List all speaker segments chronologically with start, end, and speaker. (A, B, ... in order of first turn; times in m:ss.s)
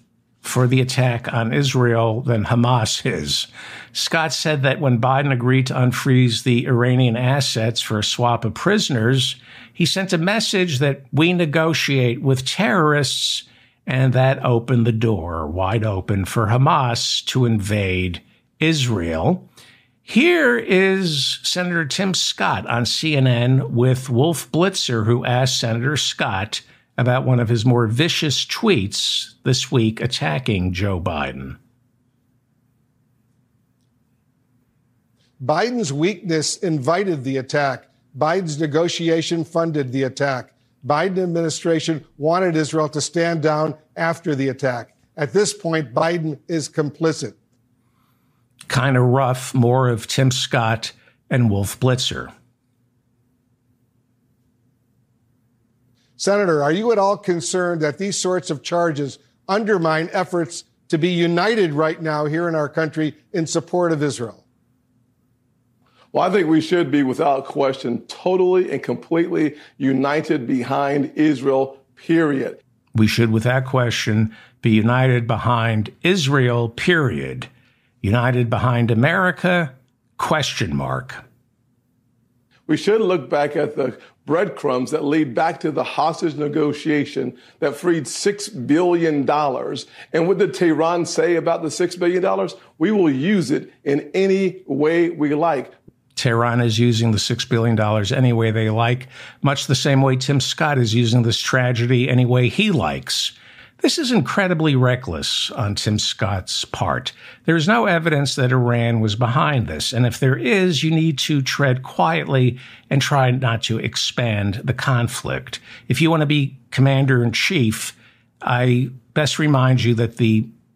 0:00.4-0:19.5 A
0:20.0-0:31.6 A
0:35.4-0:47.4 B
0:48.7-0:52.3 A
0:56.2-1:04.4 B
1:06.1-1:12.6 C
1:13.0-1:17.5 A
1:18.0-1:21.2 A
1:22.7-1:35.8 C
1:36.2-2:00.5 A